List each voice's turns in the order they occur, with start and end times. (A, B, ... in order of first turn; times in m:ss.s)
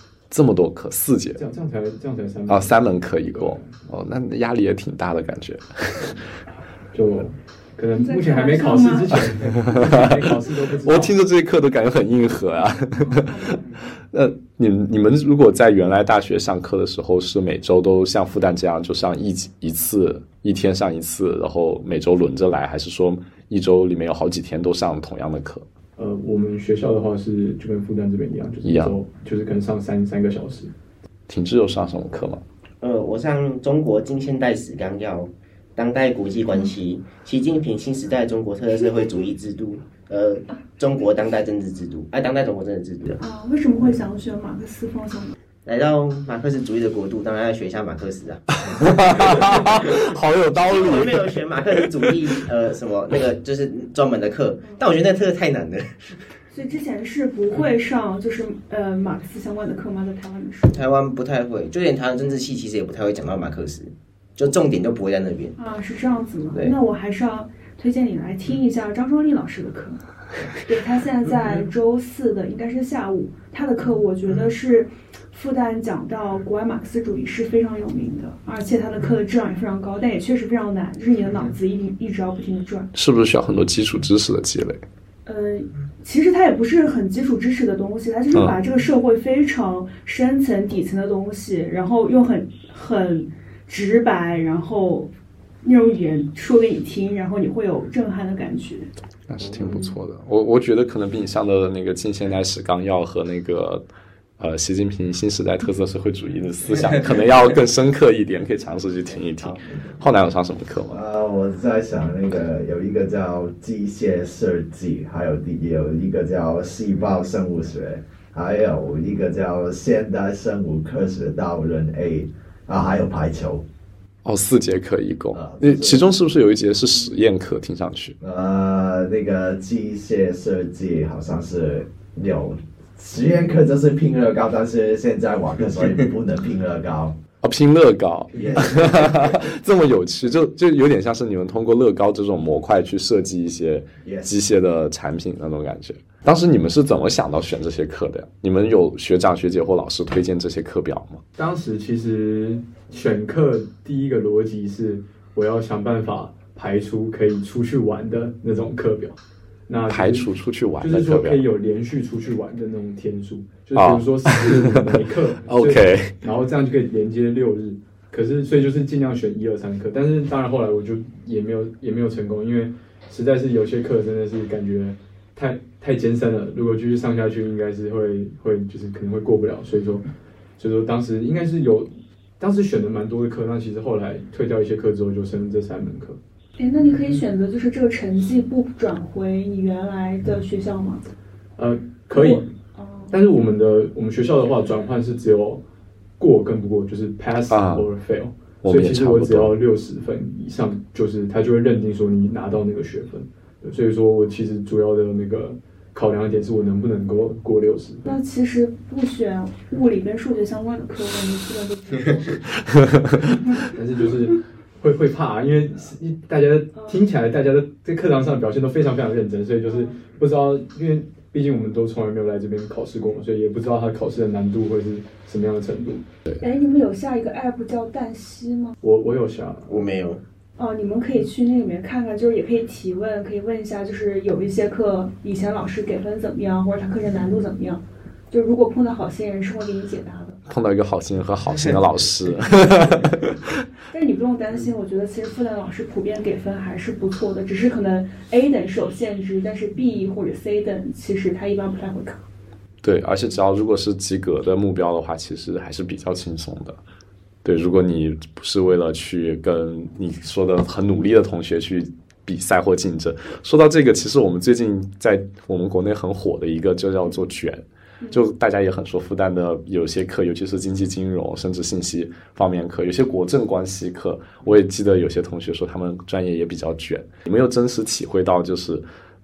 0:00.3-0:01.4 A
0:01.4-0:03.9 B
0:02.5-0:06.2 A
0:06.9-0:11.2 B
0:07.9-0:09.2 C
0:09.4-0:10.2 A
0:10.8-0:13.4 A
0:13.1-0:13.6 C
0:14.1-0:25.6 A
0:26.0-0:30.7 B
0:28.6-0:28.9 A
0:31.3-0:32.4 A
0:32.8-0:43.2 D
0:43.2-0:45.3 C
0:45.6-0:50.0 D
0:48.6-0:51.4 A
0:50.6-0:56.2 D
0:56.5-1:00.8 C
1:00.7-1:05.6 D
1:05.6-1:10.0 C
1:10.6-1:22.9 C
1:22.9-1:24.8 A
1:25.2-1:35.1 C
1:35.6-1:38.9 C
1:39.3-1:43.8 A
1:39.6-1:39.9 C
1:44.4-1:51.0 A
1:50.9-2:03.6 E
2:04.2-2:08.2 A
2:05.3-2:06.1 E
2:08.2-2:17.2 E
2:17.4-2:31.2 A
2:18.3-2:18.6 B
2:18.3-2:19.4 E
2:24.0-2:24.3 E
2:31.4-2:40.3 B
2:39.9-2:41.4 A
2:40.8-3:00.0 B
2:43.8-2:44.8 A
2:45.5-2:46.2 A
3:00.6-3:01.9 B
3:02.4-3:06.2 B
3:06.6-3:11.0 C
3:11.6-3:12.5 B
3:12.1-3:13.1 C
3:13.1-3:15.6 B
3:16.2-3:28.2 B
3:17.5-3:17.8 A
3:18.6-3:19.6 A
3:28.0-3:32.4 C
3:33.7-3:46.0 B
3:36.7-3:37.0 C
3:39.7-3:40.0 C
3:46.4-3:48.8 C
3:48.8-3:49.8 B
3:49.7-3:50.2 D
3:50.6-4:00.4 C
4:00.5-4:03.4 A
4:03.9-4:12.2 C
4:12.8-4:16.8 A
4:17.4-4:38.8 A